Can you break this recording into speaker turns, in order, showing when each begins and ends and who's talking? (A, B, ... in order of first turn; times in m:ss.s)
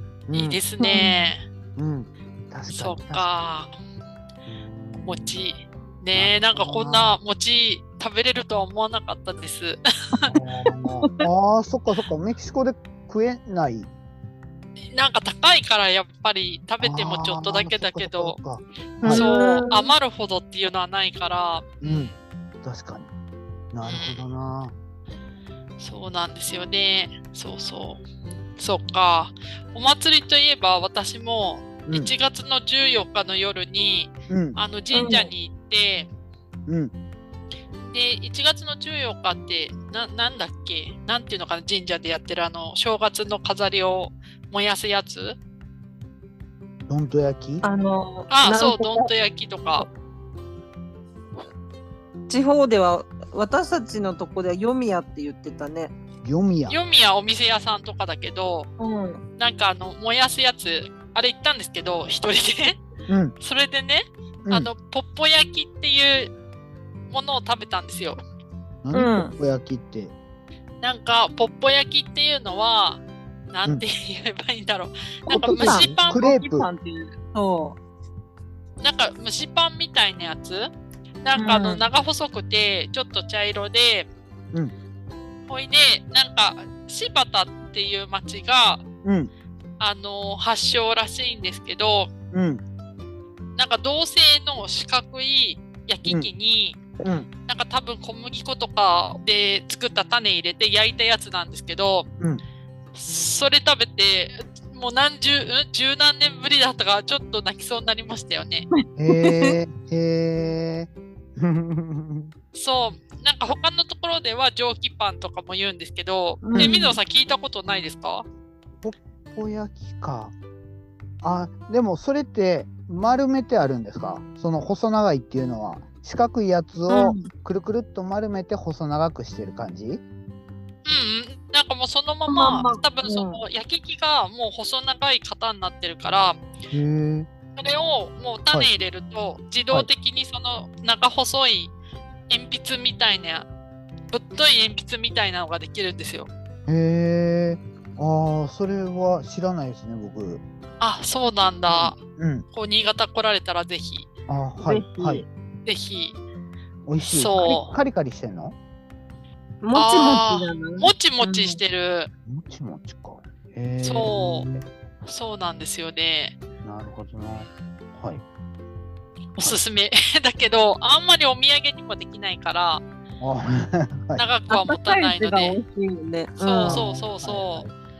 0:00.3-0:00.6 A
0:00.3-0:01.4 B
0:00.8-0:01.1 C
0:01.8-0:03.3 A
0:02.7-0:03.7 B
0:04.4-0:05.4 A
0:05.0-0:10.3 B
0:06.1-0:07.2 A
0:10.3-0:13.9 A
0:14.9-0:18.4 B
0:16.8-0:19.2 A
0:19.0-0:19.9 C
0:19.1-0:22.2 B
0:21.8-0:22.1 A
0:22.6-0:23.1 A
0:23.7-0:24.7 A
0:23.8-0:24.2 B
0:25.8-0:28.0 B
0:28.6-0:36.1 B
0:31.8-0:32.1 A
0:34.3-0:34.6 A
0:34.9-0:35.3 C
0:36.7-0:36.9 A
0:37.8-0:45.4 B
0:46.9-0:47.6 A
0:47.6-0:49.1 C
0:48.3-0:49.9 B
0:52.3-0:55.9 C
0:56.2-0:56.8 A
0:56.7-0:58.7 B
0:58.8-0:59.2 C
0:59.4-1:02.8 B
1:03.1-1:03.3 A
1:03.4-1:06.3 B
1:07.1-1:08.2 B
1:08.8-1:10.1 A
1:08.9-1:09.3 C
1:10.8-1:16.3 B
1:15.3-1:17.8 C
1:15.3-1:16.7 A
1:18.8-1:20.7 B
1:21.2-1:24.1 B
1:21.4-1:21.8 C
1:25.5-1:28.8 B
1:29.0-1:29.3 A
1:29.8-1:32.1 B
1:32.3-1:32.6 A
1:33.6-1:36.8 B
1:37.0-1:37.3 A
1:37.5-1:42.1 B
1:42.9-1:48.7 B
1:49.0-1:52.3 A
1:49.1-1:49.5 C
1:52.5-1:58.2 B
1:56.4-1:57.0 C
1:58.8-2:00.3 A
2:01.2-2:10.0 A
2:06.9-2:07.3 C
2:10.8-2:16.4 B
2:12.3-2:13.4 C
2:16.7-2:17.3 A
2:17.6-2:21.7 B
2:22.3-2:23.5 B
2:24.1-2:26.3 B
2:26.7-2:30.4 A
2:30.8-2:32.0 B
2:31.7-2:32.4 A
2:32.5-2:34.1 B
2:34.3-2:35.2 A
2:34.6-2:35.2 C
2:35.6-2:36.2 B
2:36.9-2:38.6 A
2:37.0-2:37.7 B
2:39.6-2:41.6 C
2:39.7-2:42.1 B
2:42.3-2:44.6 A
2:43.8-2:44.5 B
2:45.0-2:46.4 B
2:46.6-2:48.2 A
2:49.3-2:52.8 B
2:53.2-2:54.2 A
2:54.2-2:55.6 B
2:54.5-2:56.8 C
2:56.4-2:57.6 B
2:56.6-2:57.7 A